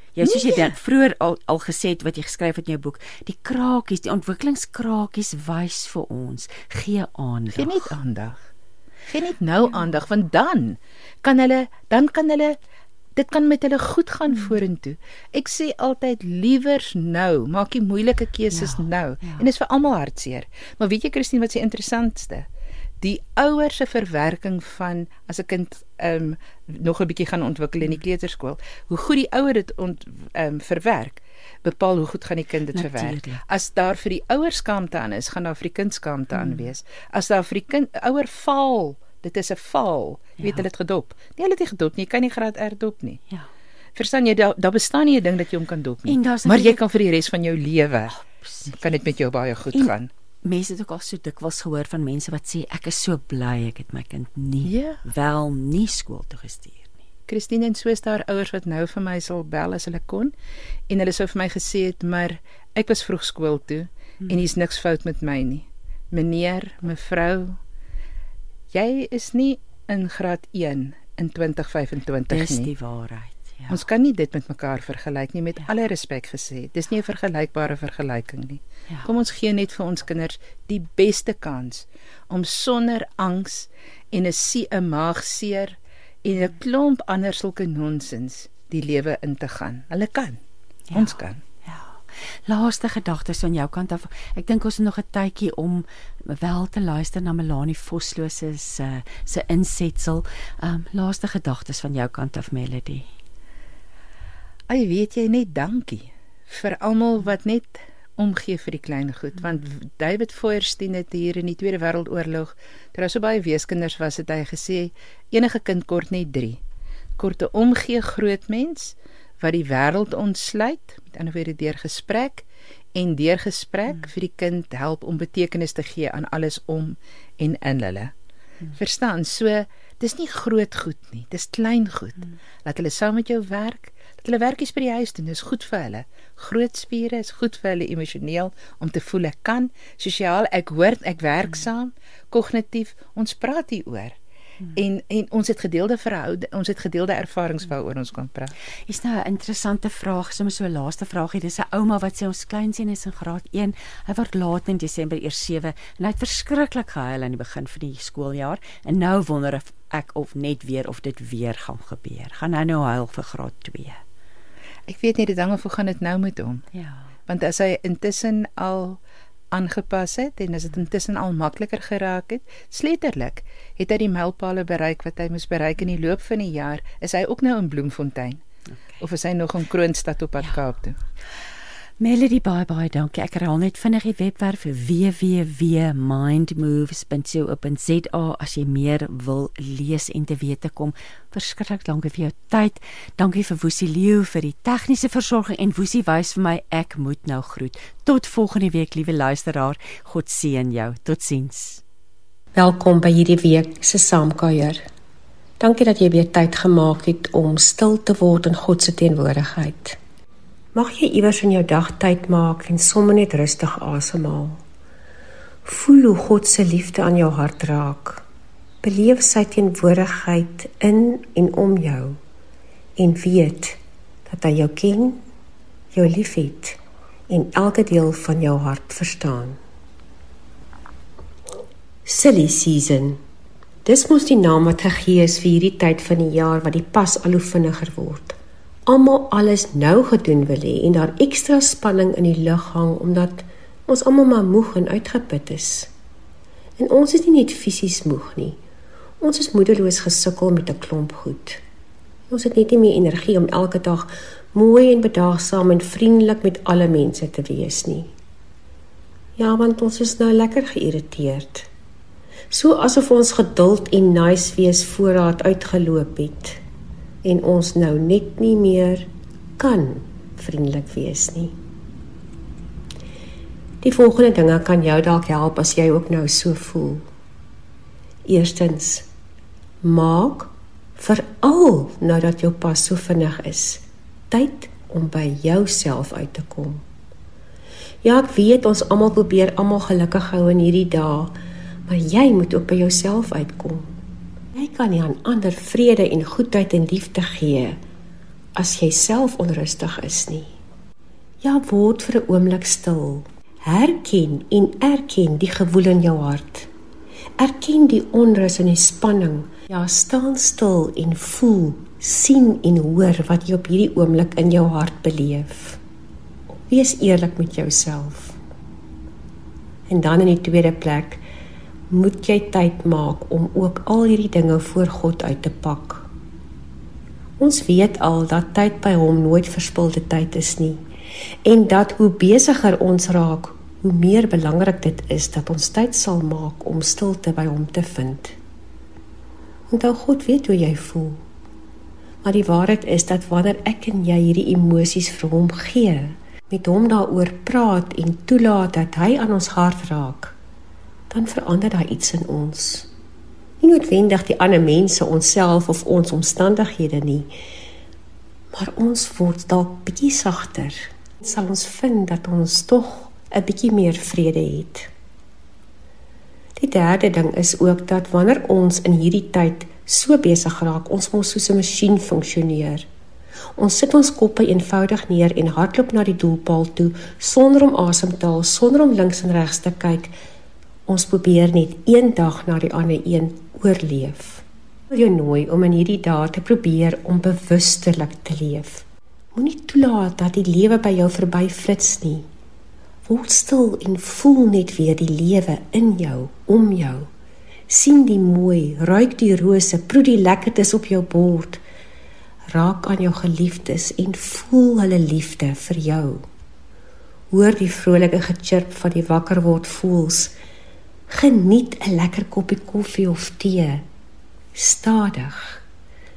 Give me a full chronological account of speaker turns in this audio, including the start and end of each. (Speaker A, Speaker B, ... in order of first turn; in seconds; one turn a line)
Speaker A: 0.2-7.9
Speaker B: 0.2-0.7
Speaker B: 7.6-8.4
Speaker B: 9.1-12.6
Speaker B: 13.2-22.5
Speaker A: 18.5-19.5
Speaker B: 23.0-43.2
Speaker A: 32.7-33.4
Speaker A: 36.4-36.7
Speaker A: 40.4-40.6
Speaker B: 44.0-48.2
Speaker A: 46.1-46.8
Speaker A: 48.4-48.8
Speaker B: 48.7-50.1
Speaker A: 50.5-56.9
Speaker B: 54.6-55.0
Speaker B: 57.3-60.3
Speaker B: 60.9-67.6
Speaker B: 68.7-72.7
Speaker A: 72.3-73.8
Speaker B: 73.7-90.4
Speaker A: 90.9-103.1
Speaker B: 90.9-91.4
Speaker B: 104.7-116.6
Speaker B: 117.2-128.1
Speaker B: 128.8-144.2
Speaker B: 144.8-148.5
Speaker A: 148.9-164.0
Speaker B: 164.9-166.7
Speaker A: 166.8-167.0
Speaker B: 167.3-169.0
Speaker B: 169.5-178.4
Speaker B: 179.0-181.0
Speaker A: 182.0-201.8
Speaker C: 202.6-204.8
Speaker C: 205.6-210.0
Speaker C: 210.7-214.6
Speaker C: 215.7-218.2
Speaker C: 218.8-222.2
Speaker C: 223.0-225.2
Speaker C: 225.9-226.8
Speaker C: 227.3-229.6
Speaker C: 232.1-233.2
Speaker C: 233.8-245.9
Speaker C: 246.8-248.6
Speaker C: 249.2-251.6
Speaker C: 252.3-258.1
Speaker C: 259.4-261.7
Speaker C: 262.5-266.6
Speaker C: 267.2-269.1
Speaker C: 269.6-271.5
Speaker C: 273.8-277.0
Speaker C: 278.3-279.1
Speaker C: 279.8-286.8
Speaker C: 288.0-291.3
Speaker C: 291.9-293.9
Speaker C: 294.5-297.8
Speaker C: 298.6-300.5
Speaker C: 301.4-306.7
Speaker C: 307.4-315.8
Speaker C: 316.7-318.4
Speaker C: 319.9-321.2
Speaker C: 321.9-326.1
Speaker C: 327.4-330.8
Speaker C: 331.4-338.3
Speaker C: 339.7-341.2
Speaker C: 342.2-350.3
Speaker C: 351.1-352.9
Speaker C: 353.6-357.3
Speaker C: 358.5-364.9
Speaker C: 366.6-372.9
Speaker C: 373.6-380.1
Speaker C: 380.9-392.2
Speaker C: 393.1-397.1
Speaker C: 397.7-401.6
Speaker C: 402.5-406.2
Speaker C: 407.3-410.3
Speaker C: 411.1-413.8
Speaker C: 414.6-415.6